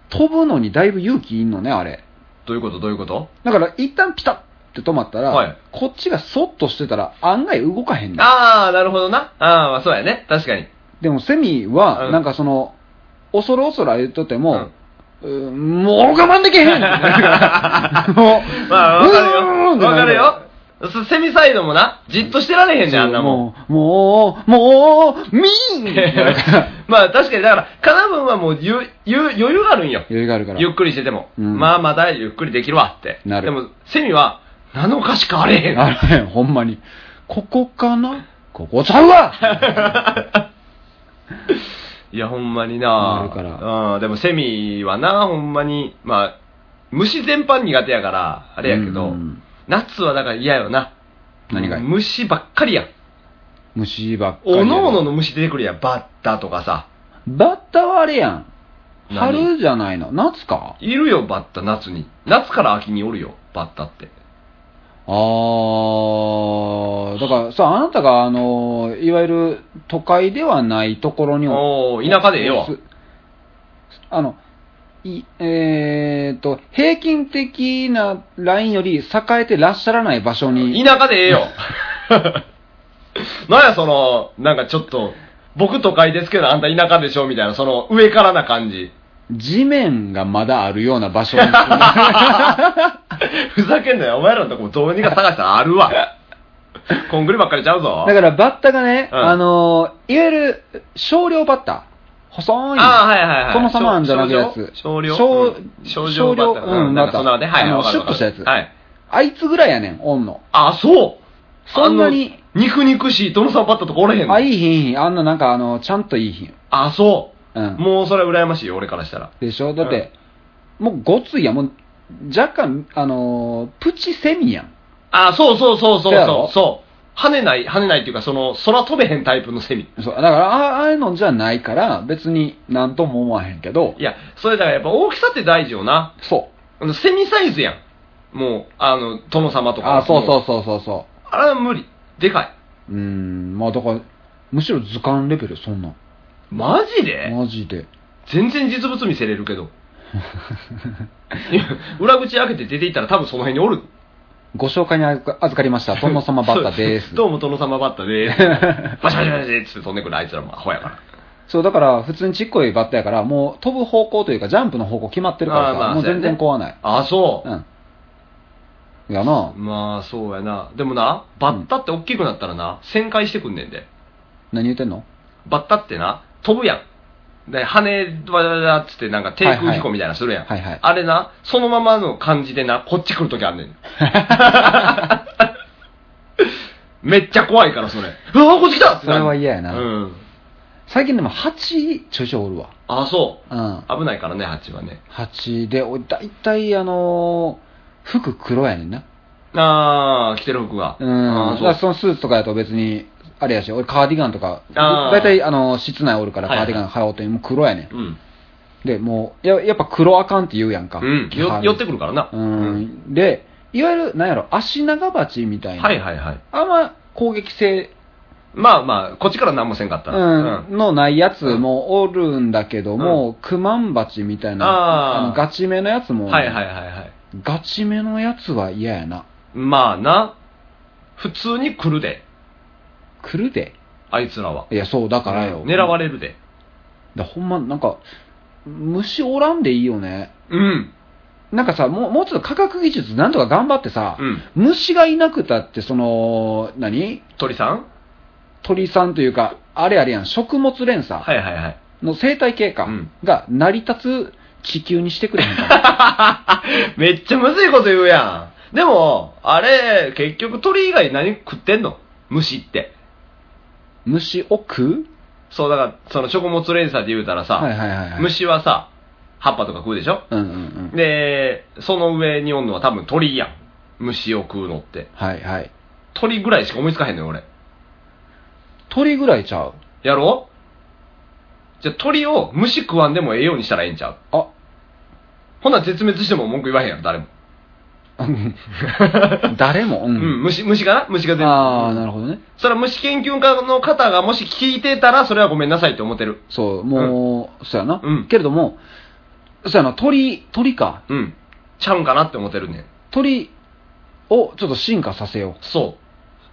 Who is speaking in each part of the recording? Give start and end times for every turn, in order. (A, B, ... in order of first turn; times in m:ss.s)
0:00.1-0:02.0 A
0:02.5-0:03.3 B
0:03.4-0:08.3 A
0:05.3-0:05.6 B
0:08.2-0:10.7 B
0:11.0-0:12.8 A
0:12.0-0:12.2 B
0:13.3-0:14.7 A
0:15.2-0:20.4 A
0:16.6-0:23.4 B
0:22.9-0:26.7 A
0:25.9-0:35.9 B
0:30.1-0:30.7 A
0:31.4-0:31.7 A
0:33.2-0:33.6 A
0:35.7-0:39.9 A
0:39.4-0:40.4 B
0:42.1-0:46.4 B
0:43.0-0:43.6 A
0:46.9-0:50.9 B
0:48.6-0:49.4 A
0:51.5-0:51.9 A
0:51.5-0:52.9 B
0:53.8-0:55.0 A
0:54.4-0:56.9 B
0:57.3-0:58.5 A
0:59.1-0:59.5 B
0:59.1-1:00.8 A
1:00.8-1:04.1 B
1:05.1-1:12.8 A
1:11.5-1:12.7 B
1:14.1-1:14.4 A
1:15.0-1:20.8 A
1:20.6-1:22.4 B
1:23.2-1:28.9 B
1:29.3-1:32.9 A
1:31.4-1:32.6 B
1:33.2-1:36.1 B
1:36.9-1:38.2 B
1:38.0-1:48.5 A
1:39.1-1:39.4 B
1:42.8-1:48.7 B
1:49.1-1:50.4 A
1:50.5-1:51.2 B
1:51.7-1:52.4 A
1:51.7-1:54.4 B
1:54.3-1:56.6 A
1:56.7-1:59.3 B
1:57.6-1:57.8 A
1:59.4-2:00.1 A
2:00.8-2:04.7 A
2:05.1-2:09.9 B
2:06.1-2:06.5 A
2:10.0-2:14.0 A
2:14.0-2:16.1 B
2:16.2-2:16.5 A
2:16.8-2:17.8 B
2:18.3-2:20.4 B
2:19.8-2:21.1 A
2:21.3-2:22.5 B
2:22.9-2:26.0 A
2:26.5-2:27.4 B
2:27.3-2:27.9 A
2:28.3-2:29.7 B
2:31.5-2:33.9 B
2:34.5-2:37.2 A
2:36.0-2:41.0 B
2:38.3-2:39.0 A
2:41.5-2:46.8 A
2:45.5-2:47.5 B
2:49.1-2:49.6 A
2:49.5-2:53.9 B
2:54.5-2:55.1 A
2:55.5-2:56.8 B
2:57.5-3:05.4 B
2:59.4-2:59.9 A
3:00.5-3:00.8 A
3:04.0-3:05.1 A
3:07.0-3:10.2 B
3:09.0-3:09.8 A
3:10.9-3:12.7 A
3:12.9-3:15.0 B
3:13.5-3:13.9 A
3:15.1-3:19.0 A
3:19.5-3:21.8 B
3:21.0-3:27.9 A
3:24.8-3:25.4 B
3:26.5-3:26.8 B
3:27.9-3:28.2 B
3:28.8-3:36.0 A
3:31.0-3:32.8 B
3:35.8-3:36.4 B
3:36.5-3:37.9 A
3:38.5-3:40.6 B
3:40.1-3:46.6 A
3:44.6-3:45.4 B
3:46.3-3:47.1 B
3:47.3-3:49.2 A
3:49.5-3:50.4 B
3:51.2-3:52.2 B
3:53.2-3:53.8 A
3:54.1-3:54.7 B
3:54.7-3:55.9 A
3:55.3-3:56.4 B
3:57.2-3:58.0 A
3:58.6-4:00.3 A
4:00.5-4:00.9 B
4:01.5-4:07.2 A
4:04.2-4:04.4 B
4:07.4-4:07.9 B
4:08.6-4:11.3 A
4:11.2-4:11.8 B
4:12.0-4:15.8 A
4:15.5-4:22.9 B
4:24.0-4:25.1 A
4:25.5-4:28.9 B
4:27.6-4:28.3 A
4:29.4-4:30.2 B
4:30.3-4:30.9 A
4:30.9-4:35.1 B
4:35.2-4:35.7 A
4:36.1-4:37.4 B
4:38.9-4:39.8 A
4:40.0-4:40.5 B
4:41.8-4:44.2 B
4:45.6-4:47.3 B
4:48.2-4:48.6 A
4:48.8-4:49.6 B
4:49.5-4:50.4 A
4:50.2-4:52.0 B
4:51.4-4:52.4 A
4:52.6-4:56.4 B
4:56.5-4:58.8 A
4:58.0-4:58.3 B
4:59.6-5:01.0 A
5:01.1-5:02.9 B
5:03.1-5:03.5 A
5:04.3-5:05.6 A
5:05.6-5:06.0 B